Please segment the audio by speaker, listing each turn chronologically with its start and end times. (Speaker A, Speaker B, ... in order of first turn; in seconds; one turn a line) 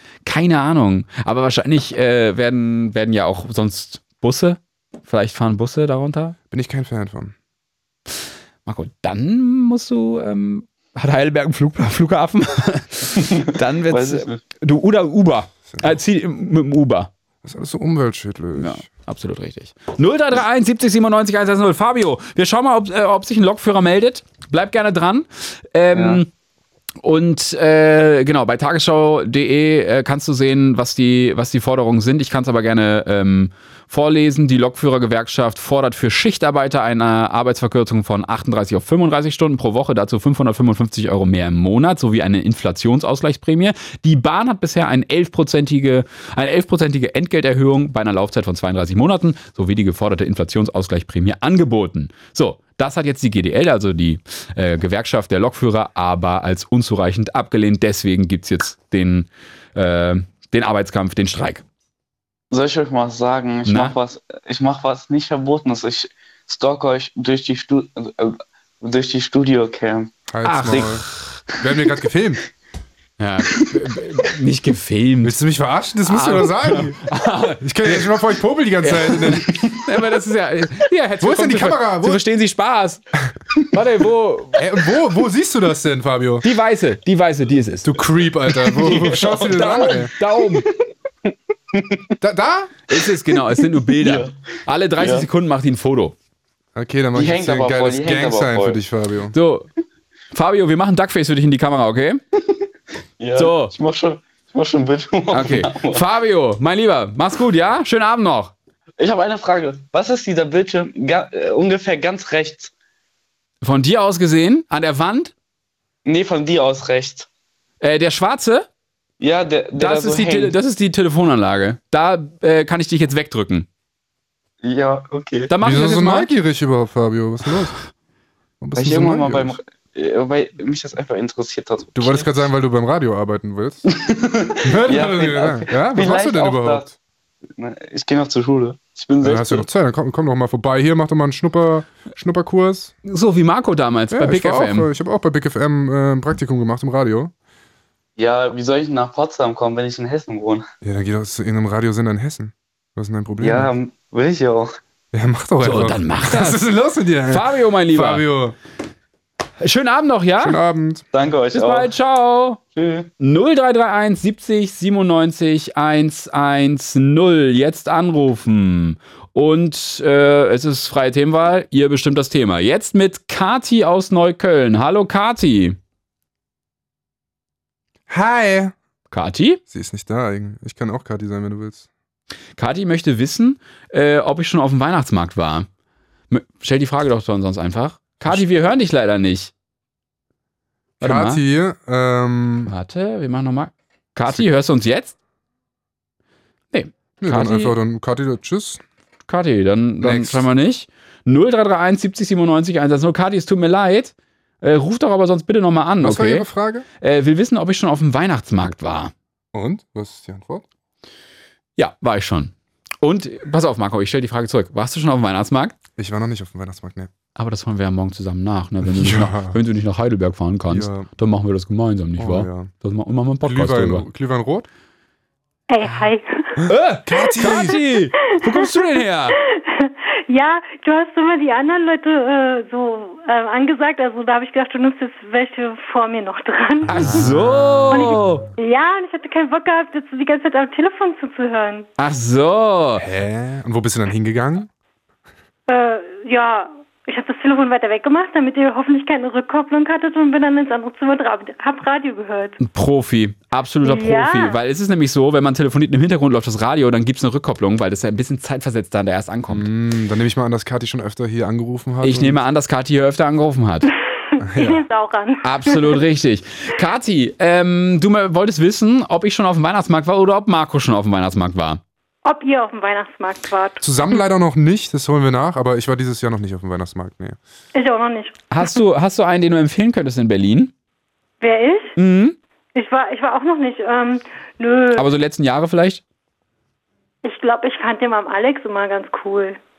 Speaker A: 0.2-6.4
Speaker B: 6.5-7.3
Speaker A: 8.7-17.1
Speaker C: 13.9-14.4
Speaker B: 15.7-16.0
Speaker B: 17.4-18.9
Speaker A: 18.6-26.3
Speaker C: 25.9-26.2
Speaker A: 27.0-61.6
Speaker C: 62.5-70.1
Speaker A: 63.7-64.0
Speaker B: 70.3-71.1
Speaker A: 70.5-71.4
Speaker B: 71.6-72.4
Speaker A: 73.2-75.4
Speaker B: 75.2-77.0
Speaker A: 76.0-78.1
Speaker B: 77.6-79.6
Speaker A: 78.8-83.0
Speaker B: 81.2-82.2
Speaker A: 83.7-84.6
Speaker B: 84.6-86.5
Speaker A: 86.4-88.0
Speaker B: 87.8-90.1
Speaker C: 88.6-90.7
Speaker A: 88.9-90.7
Speaker C: 91.3-92.1
Speaker B: 92.2-92.8
Speaker A: 92.9-96.2
Speaker C: 93.5-94.3
Speaker C: 95.0-95.3
Speaker B: 96.8-99.3
Speaker C: 97.1-98.8
Speaker A: 99.3-99.7
Speaker A: 100.3-102.2
Speaker C: 103.2-106.0
Speaker A: 103.3-103.7
Speaker A: 105.3-108.5
Speaker C: 109.0-112.7
Speaker A: 113.6-115.3
Speaker C: 116.0-117.3
Speaker A: 117.8-118.7
Speaker C: 119.2-120.6
Speaker A: 119.8-123.7
Speaker C: 124.6-125.5
Speaker A: 125.5-126.3
Speaker B: 125.6-127.8
Speaker B: 128.6-129.6
Speaker C: 128.8-132.3
Speaker B: 131.9-133.8
Speaker C: 133.9-136.9
Speaker B: 134.6-136.9
Speaker C: 137.6-139.7
Speaker B: 139.2-142.9
Speaker A: 143.1-144.9
Speaker B: 144.1-147.3
Speaker C: 148.2-150.7
Speaker B: 150.8-153.7
Speaker C: 153.4-154.7
Speaker B: 155.1-158.6
Speaker A: 155.6-156.6
Speaker A: 157.3-158.3
Speaker A: 159.6-160.6
Speaker B: 160.4-161.1
Speaker C: 161.1-161.9
Speaker A: 161.5-162.6
Speaker C: 162.6-163.1
Speaker A: 163.2-175.8
Speaker B: 178.1-178.8
Speaker A: 179.1-179.6
Speaker B: 179.7-181.9
Speaker A: 182.6-185.7
Speaker A: 186.3-189.5
Speaker B: 191.0-192.7
Speaker A: 191.0-191.4
Speaker A: 192.7-195.2
Speaker A: 196.7-197.8
Speaker B: 197.2-198.8
Speaker A: 199.3-206.5
Speaker B: 200.0-200.5
Speaker B: 206.0-206.9
Speaker A: 207.0-209.1
Speaker B: 209.5-210.7
Speaker A: 211.8-215.8
Speaker B: 216.0-217.1
Speaker A: 217.3-224.1
Speaker B: 218.8-219.6
Speaker B: 220.7-221.1
Speaker B: 222.2-222.7
Speaker B: 223.4-224.7
Speaker D: 225.7-226.7
Speaker B: 226.6-227.8
Speaker A: 226.7-229.4
Speaker D: 227.3-237.3
Speaker B: 236.9-238.2
Speaker A: 236.9-238.4
Speaker D: 237.9-241.9
Speaker A: 242.0-243.1
Speaker B: 243.0-244.7
Speaker D: 245.7-252.6
Speaker A: 252.6-259.7
Speaker D: 253.8-254.6
Speaker B: 259.5-262.4
Speaker A: 262.0-263.9
Speaker D: 264.3-266.0
Speaker B: 264.4-264.8
Speaker A: 265.4-271.8
Speaker D: 272.2-273.8
Speaker B: 273.8-277.4
Speaker D: 277.8-278.8
Speaker A: 278.5-280.7
Speaker D: 281.4-281.9
Speaker A: 282.0-282.4
Speaker D: 282.8-285.1
Speaker A: 284.9-286.0
Speaker D: 287.2-289.6